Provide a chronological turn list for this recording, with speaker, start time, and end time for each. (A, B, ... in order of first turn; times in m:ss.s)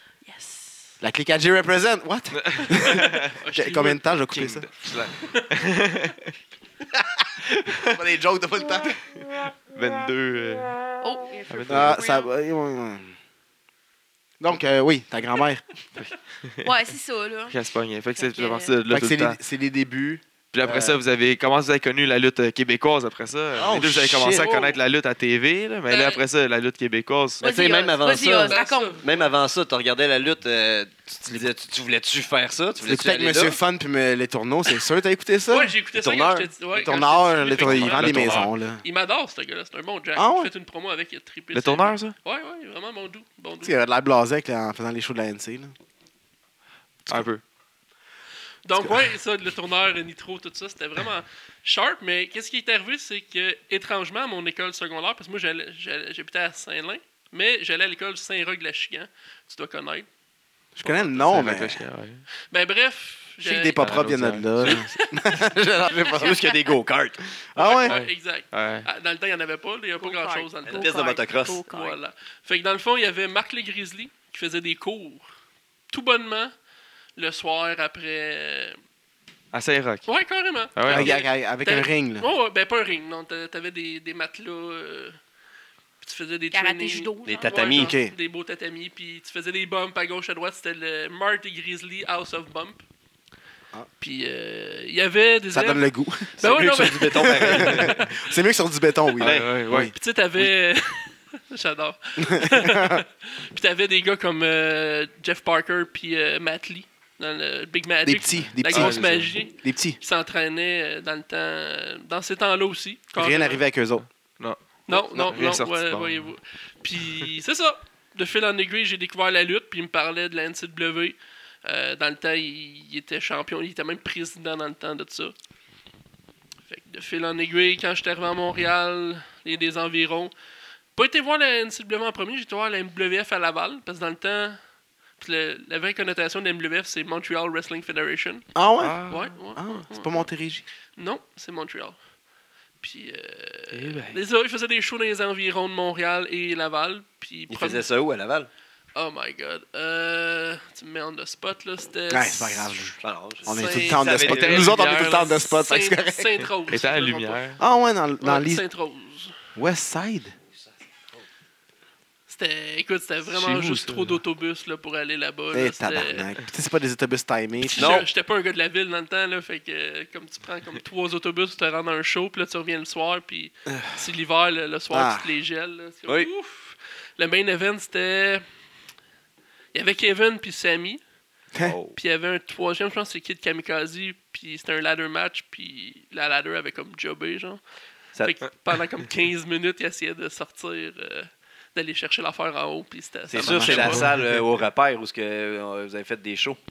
0:00.3-0:00.9 A
0:01.0-0:04.7 B
0:02.4-0:03.4 C
0:02.7-0:04.2 D
0:04.3-0:06.3 C
0:07.5-0:08.0 C
0:07.9-0:09.0 B
0:09.7-0:10.8 C
0:11.0-0:12.3 A
0:11.5-0:12.0 C
0:11.7-0:13.2 B
0:14.4-0:15.6 B
0:16.0-0:16.7 C
0:16.6-0:17.6 A
0:17.5-0:19.4 C
0:18.1-0:18.8 A
0:18.9-0:20.2 B
0:20.5-0:27.4 C
0:20.6-0:21.0 E
0:23.6-0:24.5 B
0:24.3-0:24.8 D
0:25.9-0:26.2 D
0:27.4-0:33.6 E
0:27.4-0:29.0 A
0:28.4-0:29.2 D
0:32.8-0:35.8 B
0:35.5-0:43.8 D
0:35.9-0:36.5 E
0:36.8-0:38.8 B
0:37.6-0:38.5 C
0:40.2-0:40.5 B
0:41.5-0:42.2 C
0:43.6-0:45.7 B
0:47.1-0:47.4 C
0:48.6-1:00.1 D
1:00.8-1:01.8 B
1:00.8-1:02.2 C
1:02.5-1:03.9 D
1:03.4-1:06.5 B
1:03.8-1:04.8 C
1:04.6-1:05.3 D
1:06.1-1:07.3 E
1:07.6-1:08.0 B
1:07.6-1:15.2 D
1:07.8-1:08.9 C
1:10.0-1:12.0 A
1:10.7-1:11.6 E
1:15.9-1:16.5 D
1:17.2-1:18.8 D
1:19.5-1:20.1 C
1:20.1-1:25.2 D
1:20.8-1:21.1 C
1:20.9-1:22.3 B
1:26.0-1:32.8 D
1:26.5-1:27.8 A
1:27.3-1:27.9 E
1:27.8-1:28.2 B
1:34.0-1:38.1 D
1:35.5-1:40.0 B
1:36.4-1:38.1 E
1:39.2-1:39.9 C
1:39.2-1:53.6 D
1:42.2-1:43.0 B
1:48.0-1:50.0 B
1:48.7-1:49.3 C
1:53.2-1:54.1 B
1:54.4-1:56.3 C
1:54.9-2:05.4 D
1:55.2-1:55.6 B
2:06.7-2:10.3 D
2:11.0-2:14.6 D
2:15.2-2:18.5 D
2:18.6-2:20.6 B
2:18.8-2:19.3 C
2:19.1-2:20.2 D
2:21.0-2:22.0 D
2:22.8-2:27.8 D
2:23.8-2:24.2 B
2:27.5-2:28.5 E
2:29.0-2:37.5 D
2:32.1-2:36.5 B
2:33.0-2:34.7 E
2:34.3-2:35.4 C
2:36.7-2:37.6 C
2:37.6-2:38.6 B
2:38.2-2:39.4 D
2:39.6-2:40.4 B
2:42.3-2:46.4 D
2:43.3-2:44.2 C
2:45.5-2:48.0 B
2:47.6-2:58.4 D
2:47.8-2:48.1 E
2:53.7-2:54.0 B
2:54.9-2:55.3 B
2:59.7-3:01.0 D
3:01.6-3:02.0 E
3:02.0-3:07.6 D
3:08.2-3:14.0 D
3:13.3-3:16.6 E
3:13.4-3:14.1 B